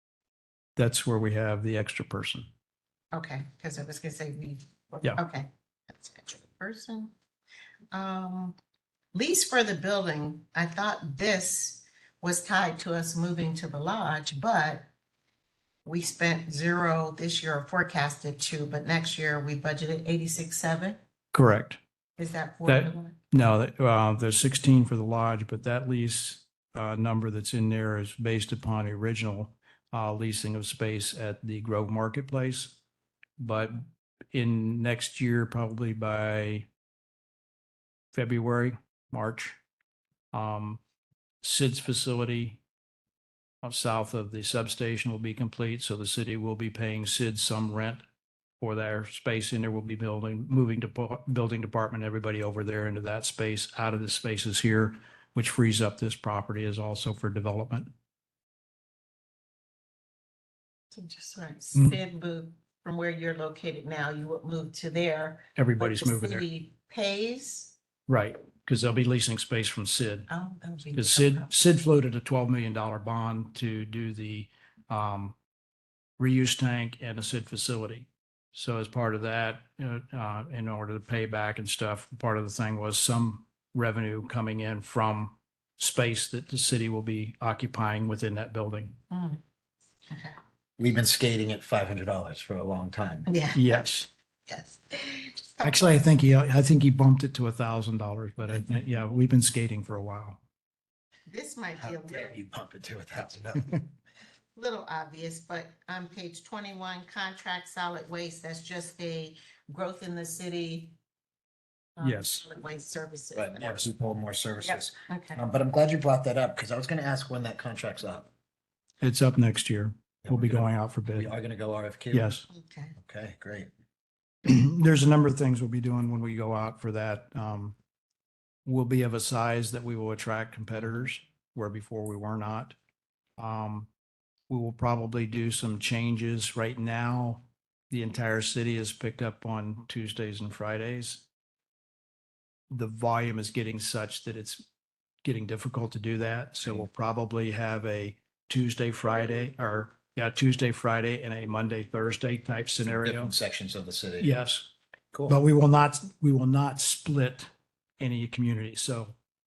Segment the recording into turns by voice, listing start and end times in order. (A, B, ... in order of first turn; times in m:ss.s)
0:00.8-0:02.5 A
0:03.1-0:07.1 B
0:07.9-0:08.6 B
0:09.1-0:14.9 B
0:15.8-0:21.0 B
0:21.3-0:21.8 A
0:22.2-0:23.2 B
0:22.7-0:32.8 A
0:33.4-0:36.7 A
0:38.1-0:39.6 A
0:40.3-0:40.8 A
0:41.4-0:42.6 A
0:43.6-0:48.0 A
0:48.6-0:57.9 A
1:00.9-1:07.8 B
1:05.6-1:06.4 A
1:08.1-1:10.3 A
1:10.3-1:11.5 B
1:10.9-1:15.4 A
1:16.2-1:29.0 A
1:29.1-1:29.4 B
1:30.1-1:30.4 B
1:30.8-1:33.3 C
1:33.3-1:33.9 B
1:33.6-1:34.1 A
1:34.5-1:36.0 B
1:35.6-1:40.4 A
1:41.3-1:42.4 B
1:41.8-1:43.8 C
1:44.6-1:51.0 B
1:52.0-1:53.8 B
1:52.0-1:52.4 A
1:53.4-1:58.3 C
1:54.6-1:55.4 B
1:59.0-2:01.3 A
2:00.2-2:02.3 C
2:02.1-2:02.5 A
2:02.5-2:03.0 B
2:03.0-2:03.7 C
2:04.4-2:07.8 A
2:08.6-2:12.8 A
2:13.4-2:13.9 A
2:14.5-2:21.3 A
2:22.7-2:24.6 A
2:25.2-2:33.3 A
2:32.8-2:34.4 C
2:34.2-2:34.7 A
2:35.1-2:35.4 C
2:35.3-2:39.2 A